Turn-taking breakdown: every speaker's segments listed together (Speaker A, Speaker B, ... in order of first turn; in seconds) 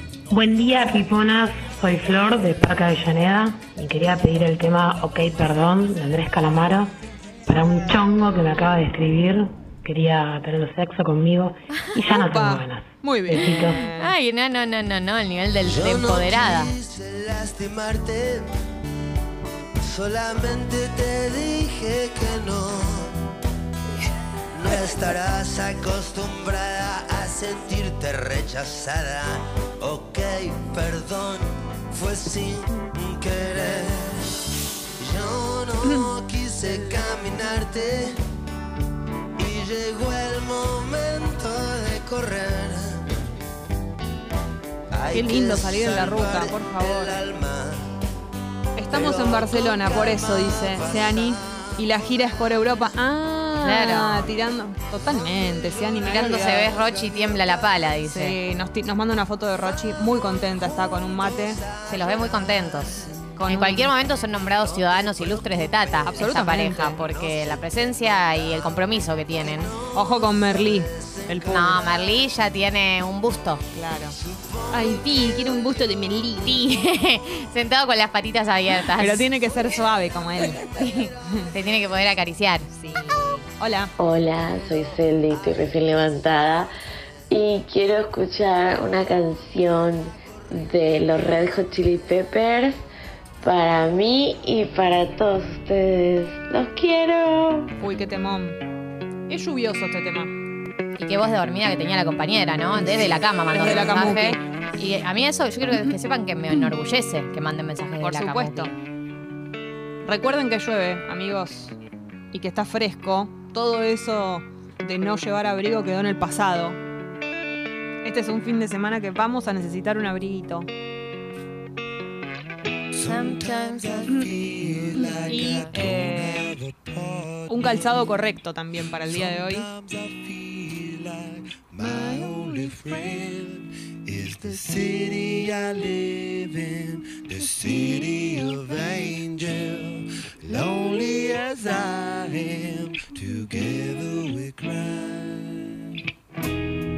Speaker A: 0.3-6.9, 7.5-13.9
Speaker B: 12.1-14.1, 45.1-47.2, 48.8-56.7, 58.0-61.6, 63.4-63.9, 66.0-67.0, 69.9-71.7, 73.7-74.2, 75.5-75.9, 79.0-80.6, 82.8-83.9, 97.8-98.6, 99.3-100.3, 102.8-104.4, 108.0-108.7, 110.0-111.8, 112.3-116.8, 118.0-120.7, 125.7-126.5, 127.5-129.7
Speaker C: 14.0-16.7, 53.6-54.3, 56.1-58.4, 61.9-69.7, 71.5-73.6, 76.4-79.2, 80.8-82.7, 101.0-108.7, 123.1-124.0, 125.1-125.7
Speaker D: 15.6-18.5, 19.8-23.2, 24.5-34.3, 35.0-38.2, 39.4-43.1, 44.9-48.0, 48.9-51.7, 61.1-63.2, 64.6-65.7, 67.0-67.7, 69.4-71.8, 74.2-75.2, 122.9-128.1, 128.8-145.6
Speaker E: 84.0-86.7, 87.3-92.8, 93.4-97.7